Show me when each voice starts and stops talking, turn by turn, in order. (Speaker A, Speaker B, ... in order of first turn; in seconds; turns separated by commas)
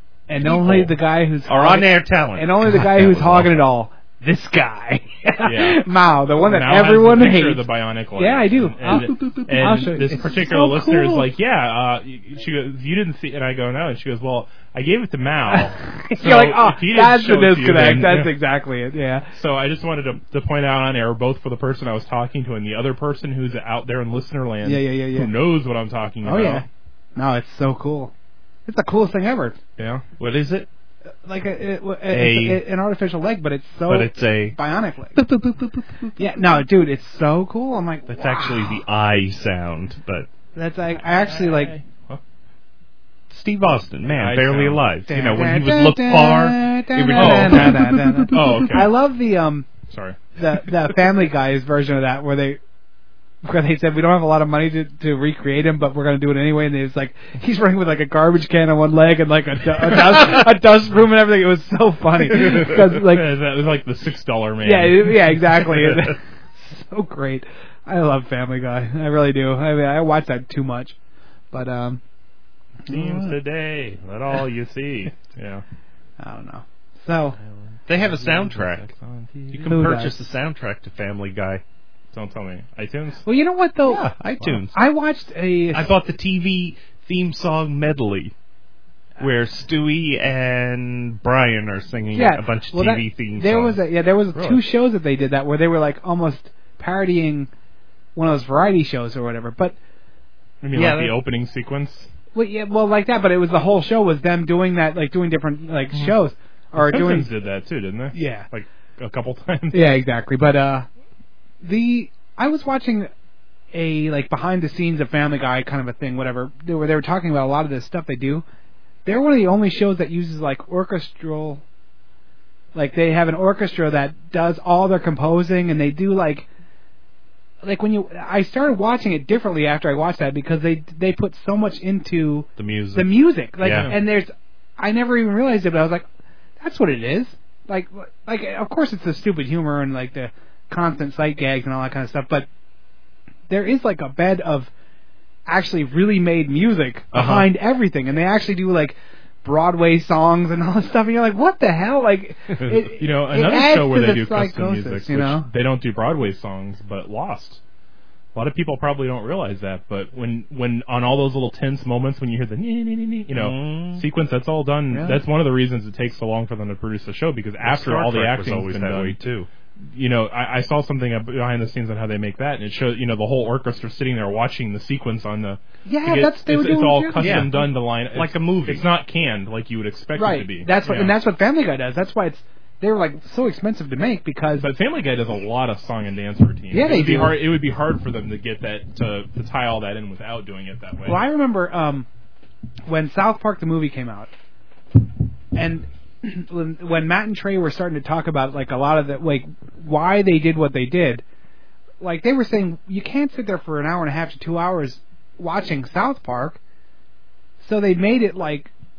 Speaker A: 0.3-7.6, Speaker B: 0.4-0.9, Speaker B: 1.4-3.6, Speaker C: 5.4-18.3, Speaker A: 8.2-11.3, Speaker A: 15.5-19.3, Speaker C: 19.3-26.6, Speaker A: 24.6-25.3, Speaker A: 26.2-26.6, Speaker A: 27.2-28.1, Speaker A: 28.7-29.6, Speaker C: 29.8-30.0, Speaker B: 30.2-30.7, Speaker A: 31.3-35.2, Speaker B: 32.1-32.6, Speaker B: 33.9-34.6, Speaker B: 35.2-36.1, Speaker A: 36.2-38.8, Speaker B: 38.1-40.3, Speaker A: 40.5-41.7, Speaker C: 41.1-42.2, Speaker B: 43.3-48.8, Speaker C: 44.1-44.8, Speaker A: 45.1-49.7, Speaker C: 47.1-48.9, Speaker C: 49.9-50.6, Speaker A: 50.4-52.6, Speaker A: 53.4-63.3, Speaker C: 62.3-65.7, Speaker A: 64.6-71.0, Speaker A: 71.5-72.0, Speaker A: 72.9-73.3, Speaker C: 72.9-75.6, Speaker A: 76.2-77.4, Speaker C: 77.4-79.8, Speaker B: 77.9-78.9, Speaker B: 79.5-81.6, Speaker A: 79.7-80.2, Speaker C: 82.1-83.2, Speaker A: 83.3-84.1, Speaker B: 83.8-84.8, Speaker A: 84.7-85.9, Speaker B: 85.7-88.3, Speaker B: 89.2-93.8, Speaker A: 92.1-97.5, Speaker B: 94.3-94.6, Speaker A: 98.2-99.8, Speaker C: 100.6-102.1, Speaker B: 100.7-101.2, Speaker A: 102.3-107.3, Speaker C: 106.8-110.0, Speaker A: 108.1-108.5, Speaker A: 109.7-110.9, Speaker A: 111.6-113.1, Speaker A: 113.7-118.5, Speaker A: 119.0-121.6, Speaker A: 122.8-126.5, Speaker A: 127.6-136.1, Speaker B: 132.6-134.0, Speaker C: 133.7-134.0, Speaker A: 136.6-142.5, Speaker A: 143.5-144.7, Speaker A: 145.5-155.5, Speaker B: 147.1-147.5, Speaker C: 153.0-157.6, Speaker C: 158.3-169.2, Speaker B: 163.3-164.1, Speaker A: 164.9-165.2, Speaker B: 167.6-169.5, Speaker C: 169.9-181.2, Speaker A: 175.9-177.7, Speaker B: 177.2-177.6, Speaker B: 178.1-178.8, Speaker A: 180.2-184.7, Speaker C: 184.6-191.2, Speaker A: 186.7-187.4, Speaker A: 191.1-192.1, Speaker A: 192.9-194.3, Speaker A: 195.6-201.2, Speaker A: 202.0-206.6, Speaker A: 207.6-208.7